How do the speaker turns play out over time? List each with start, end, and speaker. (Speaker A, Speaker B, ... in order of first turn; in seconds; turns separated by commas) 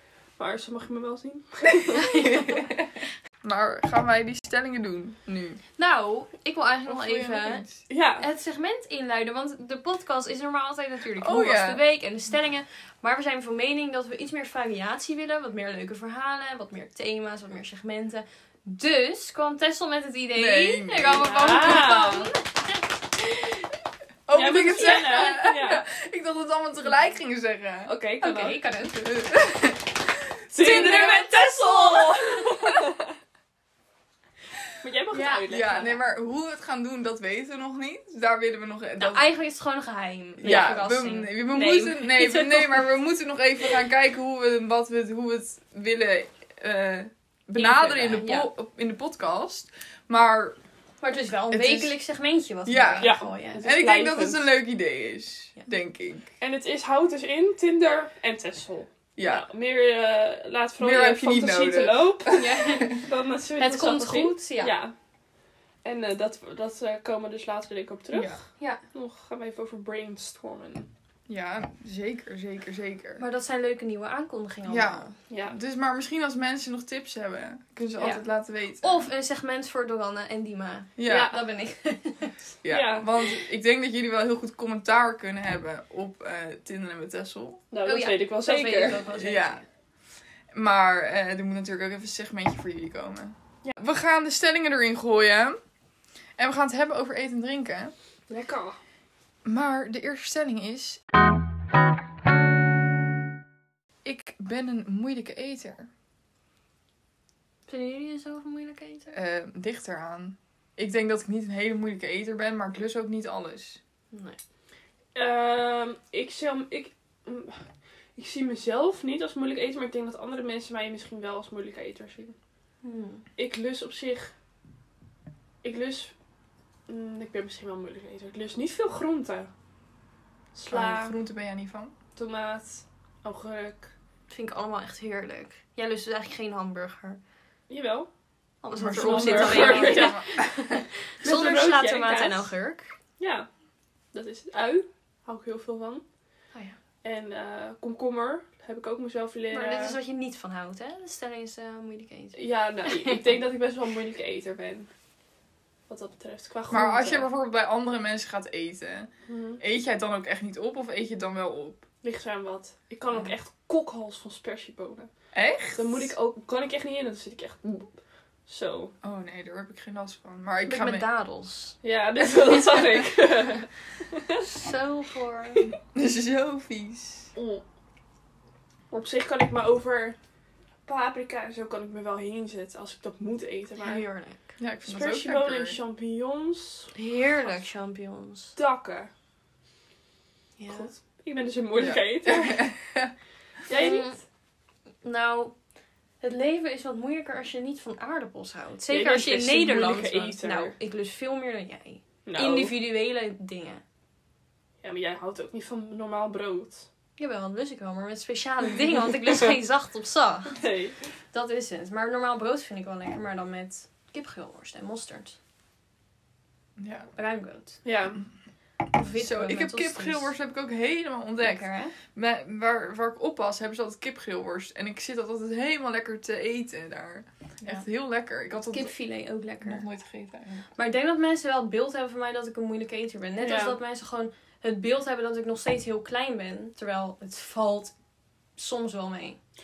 Speaker A: 0.4-2.0, Speaker B: 1.7-5.6, Speaker C: 2.1-2.5, Speaker C: 5.8-22.5, Speaker B: 6.9-7.8, Speaker A: 7.9-8.3, Speaker B: 11.2-11.8, Speaker B: 20.4-21.9, Speaker A: 21.1-22.3, Speaker B: 24.3-27.9, Speaker A: 24.3-25.9, Speaker A: 27.9-28.6, Speaker C: 28.2-29.1, Speaker B: 28.9-31.3, Speaker A: 30.5-33.1, Speaker C: 30.6-32.5, Speaker A: 34.8-36.0, Speaker C: 35.1-35.8, Speaker B: 35.5-39.3, Speaker C: 39.0-42.9, Speaker B: 40.4-50.6, Speaker A: 40.4-40.8, Speaker C: 47.6-48.5, Speaker C: 51.0-53.7, Speaker B: 51.5-52.0, Speaker B: 52.7-56.3, Speaker A: 53.0-54.5, Speaker A: 56.4-64.9, Speaker B: 59.2-59.5, Speaker B: 60.8-62.9, Speaker C: 62.4-63.1, Speaker C: 63.6-64.8, Speaker A: 65.8-70.9, Speaker B: 68.1-68.4, Speaker B: 71.3-73.2, Speaker C: 73.2-75.1, Speaker B: 74.7-79.1, Speaker A: 75.3-75.6, Speaker C: 78.8-82.3, Speaker B: 81.0-81.3, Speaker A: 81.1-81.4, Speaker B: 82.6-87.6, Speaker A: 82.7-83.1, Speaker A: 87.7-89.0, Speaker C: 87.8-89.6, Speaker B: 89.1-89.6, Speaker B: 90.5-95.6, Speaker B: 96.4-97.9, Speaker A: 98.3-98.8, Speaker B: 99.5-101.0, Speaker B: 104.0-105.9, Speaker C: 107.7-109.1, Speaker B: 109.1-113.8, Speaker C: 114.1-114.4, Speaker A: 115.2-117.6, Speaker A: 118.2-122.4, Speaker C: 122.8-123.2, Speaker A: 123.4-124.3, Speaker A: 125.6-126.1, Speaker A: 126.9-129.5, Speaker A: 130.6-131.2, Speaker B: 130.7-131.9, Speaker A: 132.2-133.9, Speaker C: 134.3-137.2, Speaker A: 137.7-138.1, Speaker C: 138.6-142.9, Speaker B: 138.7-140.8, Speaker A: 139.0-140.2, Speaker A: 141.2-142.5, Speaker A: 143.2-143.5, Speaker A: 144.1-146.0, Speaker A: 147.0-150.0, Speaker C: 149.5-153.2, Speaker A: 152.4-154.9, Speaker A: 155.9-157.3, Speaker B: 156.7-161.8, Speaker A: 159.3-159.6, Speaker A: 162.0-165.1, Speaker B: 165.3-166.1, Speaker A: 165.8-167.9, Speaker A: 168.5-168.9, Speaker B: 169.0-171.1, Speaker C: 170.7-171.8, Speaker A: 171.8-174.4, Speaker C: 174.4-175.7, Speaker B: 175.9-177.3, Speaker A: 177.4-177.6, Speaker A: 178.9-180.2, Speaker A: 180.9-184.0, Speaker C: 183.8-184.5, Speaker B: 184.6-185.8, Speaker A: 184.9-187.6, Speaker C: 186.9-188.6, Speaker A: 188.6-189.1, Speaker C: 190.6-190.9, Speaker A: 190.7-192.7, Speaker B: 191.8-193.1, Speaker A: 193.7-194.1, Speaker C: 193.7-194.2, Speaker C: 195.0-195.6, Speaker C: 196.2-203.8, Speaker A: 198.9-200.7, Speaker A: 202.2-202.7, Speaker A: 204.8-206.9, Speaker C: 207.2-210.6, Speaker A: 210.5-211.0, Speaker C: 211.3-215.4, Speaker B: 216.8-217.1, Speaker C: 217.2-217.8, Speaker A: 217.8-218.2, Speaker C: 218.9-220.3, Speaker B: 219.1-228.9, Speaker C: 221.4-221.9, Speaker C: 228.7-229.8, Speaker B: 229.6-230.7, Speaker C: 230.8-237.9, Speaker A: 233.4-233.8, Speaker C: 238.6-239.4